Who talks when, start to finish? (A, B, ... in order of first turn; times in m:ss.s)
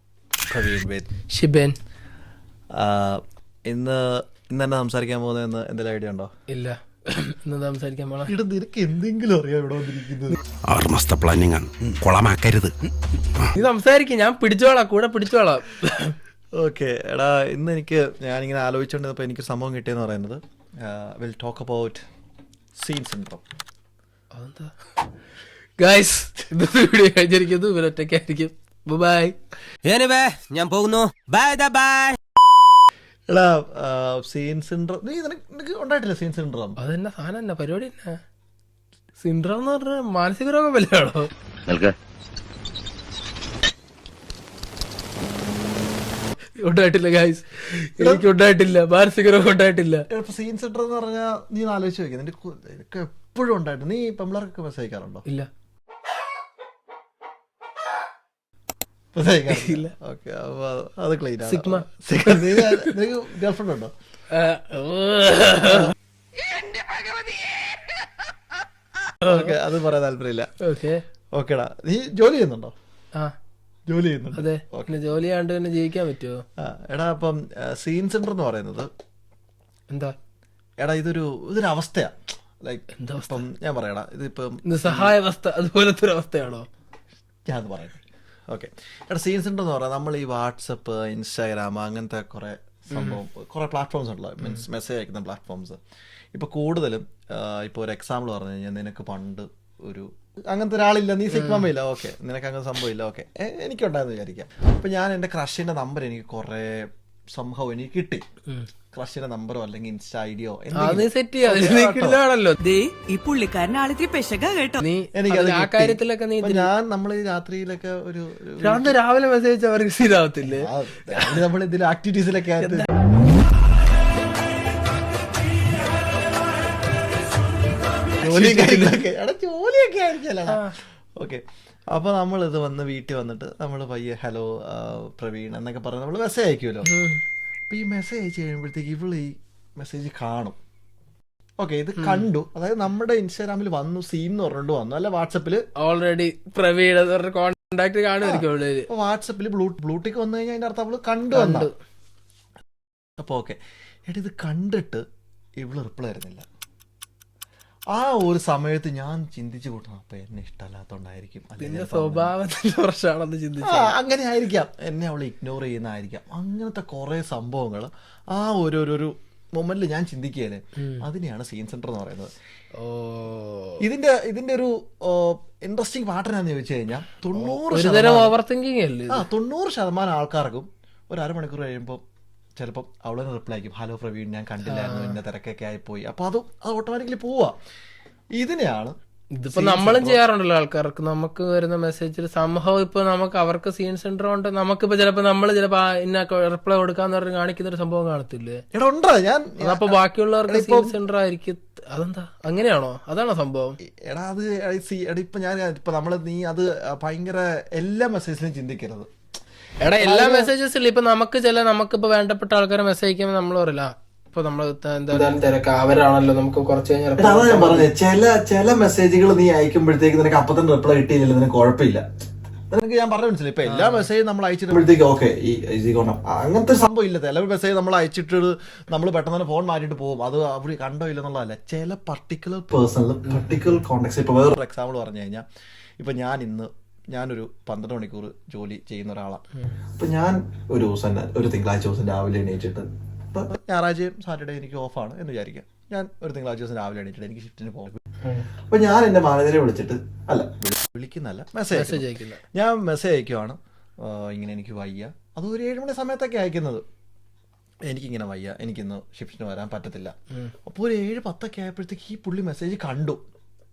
0:00.5-0:01.1 A
0:01.3-0:01.8 B
0:02.7-0:06.3 A
0:06.5-0:08.3 B
0:08.3-0:10.4 A
0:10.7-0:12.7 C
0:13.6-0:16.1 B
0:16.6-0:22.0 A
0:22.7-0:23.4 A
0:24.3-0:24.7 B
0:25.8-0:29.4 B
0:29.8-0:32.2 D
0:33.3-0:36.8 A
0:36.8-0:38.2 B
0:39.2-0:41.3 B
0:46.6-0:50.0 B
0:48.0-0:48.3 A
0:50.1-0:55.2 A
0:59.1-1:03.9 A
0:59.5-0:59.9 B
1:01.4-1:02.9 B
1:04.3-1:07.8 B
1:09.2-1:09.6 B
1:09.2-1:10.5 A
1:10.6-1:11.0 B
1:11.3-1:12.7 A
1:13.9-1:14.9 A
1:14.4-1:16.4 B
1:16.6-1:18.9 A
1:20.8-1:25.1 A
1:23.0-1:23.4 B
1:24.7-1:26.6 B
1:27.5-1:35.8 A
1:36.3-1:48.2 A
1:41.3-1:41.6 B
1:48.9-1:52.2 A
1:50.8-1:52.6 B
1:52.6-1:54.8 E
1:54.8-1:56.7 B
1:55.1-1:58.9 A
1:58.6-2:01.3 B
2:00.4-2:02.9 A
2:08.2-2:16.9 A
2:08.2-2:09.0 B
2:10.5-2:10.7 B
2:16.8-2:17.2 B
2:17.7-2:20.6 A
2:21.6-2:25.6 A
2:25.8-2:28.9 B
2:28.2-2:31.7 A
2:31.3-2:31.7 B
2:33.2-2:33.6 A
2:34.1-2:35.0 A
2:35.6-2:36.4 A
2:37.9-2:42.3 A
2:41.6-2:43.9 B
2:43.6-2:52.3 A
2:50.8-2:51.0 B
2:52.8-2:53.8 B
2:53.8-2:58.3 A
2:57.4-2:59.2 B
2:59.1-3:02.0 A
3:02.6-3:07.6 A
3:04.6-3:05.2 B
3:08.4-3:08.9 A
3:09.4-3:18.6 B
3:09.5-3:10.2 A
3:18.7-3:21.0 A
3:19.6-3:23.8 B
3:23.8-3:29.1 A
3:29.8-3:37.9 B
3:30.0-3:30.5 A
3:37.2-3:42.0 A
3:42.7-3:55.4 A
3:43.6-3:44.1 B
3:53.3-3:53.6 B
3:56.0-3:59.4 A
4:00.0-4:08.0 A
4:08.7-4:16.8 A
4:11.7-4:12.4 B
4:17.9-4:20.1 A
4:20.6-4:23.2 A